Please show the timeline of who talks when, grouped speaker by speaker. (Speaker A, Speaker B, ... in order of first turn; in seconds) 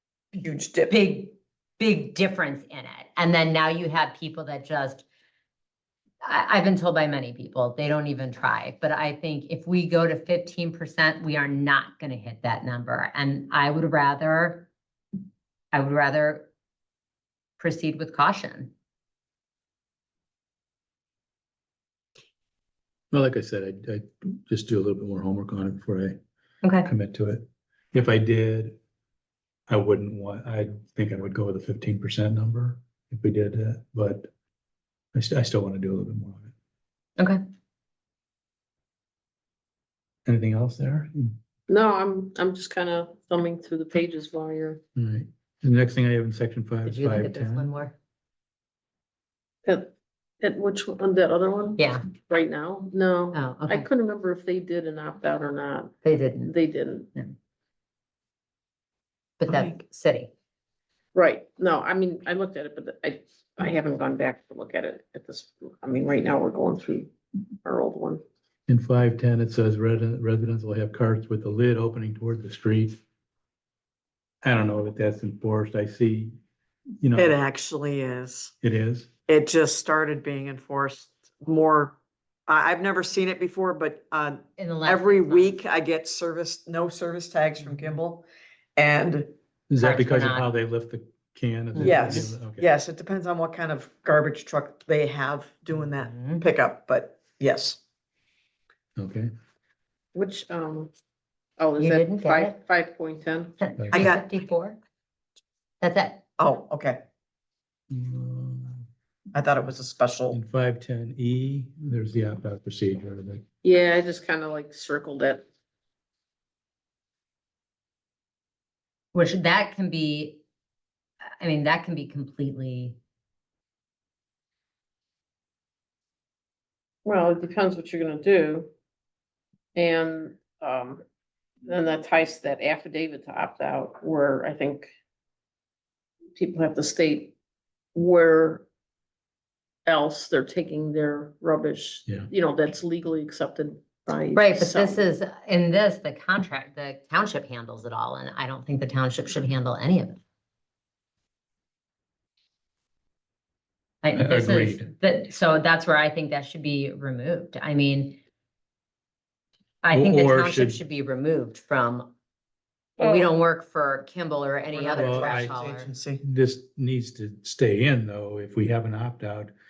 Speaker A: 0.3-1.0, 59.5-59.7, 77.2-78.5, 79.3-82.0, 82.5-89.3, 91.8-97.8, 103.9-104.2, 106.4-107.0, 109.3-110.4, 164.7-166.2
Speaker B: 0.9-5.1, 6.2-14.7, 15.7-16.5, 17.6-18.7, 26.6-26.9, 46.9-48.0, 51.8-52.0, 53.3-53.9, 56.0-56.5, 59.4-60.3, 84.6-85.6, 89.8-90.5, 91.8-92.3, 96.0-96.4, 101.8-102.6, 103.6-104.8, 105.8-106.2, 119.1-120.4, 121.4-123.0, 144.3-150.2, 154.0-158.2, 159.8-162.1, 163.0-165.9
Speaker C: 23.1-26.2, 26.9-28.8, 29.7-34.3, 35.1-36.5, 40.3-41.3, 45.0-47.7, 68.7-73.0, 74.4-76.3, 77.0-77.3, 78.6-79.1, 89.7-92.6, 99.0-99.3, 103.8-104.0, 107.9-108.8, 110.3-113.4, 154.2-154.8, 159.9-160.8, 165.0-165.5, 166.3-169.5
Speaker D: 41.7-44.8, 49.6-57.1, 61.1-67.1, 67.7-68.2, 100.1-100.9, 101.6-103.6, 113.6-115.4, 127.0-128.7, 129.8-131.0, 131.7-134.9, 136.4-137.3, 137.9-138.7, 139.9-145.0, 163.0-163.3